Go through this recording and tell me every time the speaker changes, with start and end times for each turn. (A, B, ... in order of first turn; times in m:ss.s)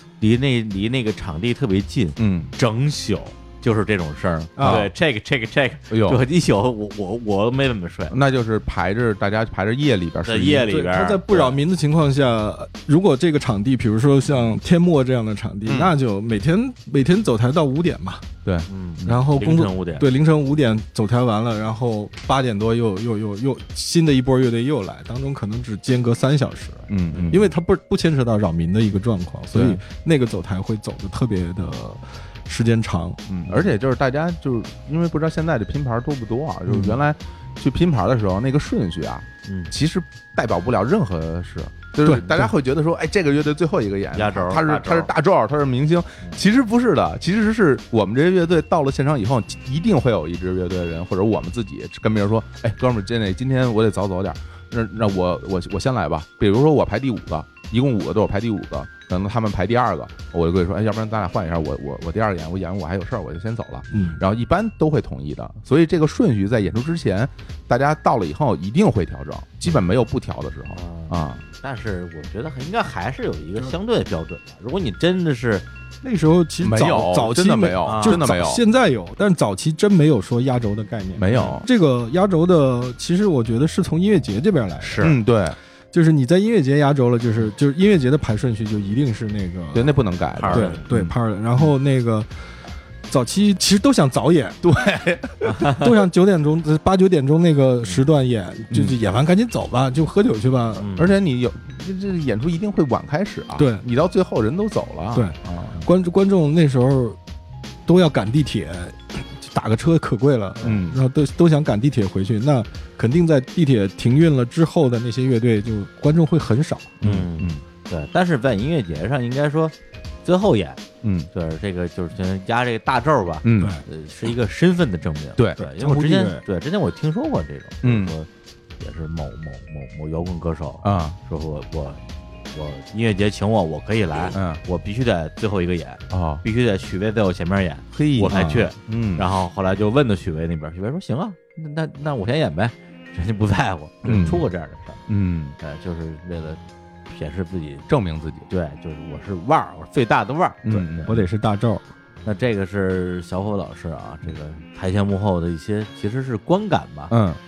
0:00.2-0:08.1 A
0:02.2-0:02.5 B
0:04.6-0:04.9 C
0:04.6-0:04.9 B
0:05.9-0:06.2 B
0:08.1-0:10.8 B
0:10.2-0:11.6 A
0:10.7-0:18.2 C
0:15.7-0:15.9 B
0:18.4-0:19.2 B
0:18.7-0:20.1 A
0:19.0-0:33.2 C
0:26.9-0:27.4 B
0:27.1-0:27.4 A
0:29.5-0:29.8 B
0:33.3-1:11.4 B
0:36.7-0:37.0 C
0:39.4-0:39.7 A
0:42.0-0:42.5 C
0:44.1-0:45.1 A
1:03.9-1:04.2 C
1:10.7-1:15.6 A
1:16.0-1:25.1 C
1:16.6-1:18.6 B
1:17.8-1:18.2 A
1:21.2-1:21.6 B
1:24.8-1:25.2 A
1:25.0-1:25.6 B
1:25.9-1:30.0 C
1:29.7-1:31.1 B
1:30.4-1:30.8 A
1:30.5-1:32.3 C
1:33.1-1:34.6 C
1:34.6-1:35.6 B
1:35.4-1:35.9 A
1:35.7-1:40.9 C
1:38.7-1:39.0 B
1:40.8-1:41.1 A
1:41.0-1:45.8 B
1:43.6-1:43.8 C
1:45.1-1:47.2 C
1:47.8-1:57.0 C
1:50.6-1:51.0 B
1:57.0-1:57.6 B
1:57.0-1:59.7 A
2:00.2-2:00.8 A
2:01.0-2:01.3 B
2:01.3-2:08.3 A
2:03.4-2:03.8 B
2:05.6-2:06.4 C
2:07.8-2:08.1 B
2:08.8-2:25.0 A
2:10.8-2:11.2 B
2:14.3-2:14.6 B
2:16.1-2:16.4 B
2:17.9-2:19.3 B
2:24.0-2:24.4 B
2:25.1-2:25.6 B
2:25.6-2:27.9 A
2:27.9-2:28.5 B
2:28.5-2:31.1 A
2:30.6-2:31.2 B
2:31.0-2:31.8 C
2:32.2-2:37.1 A
2:37.1-2:37.4 B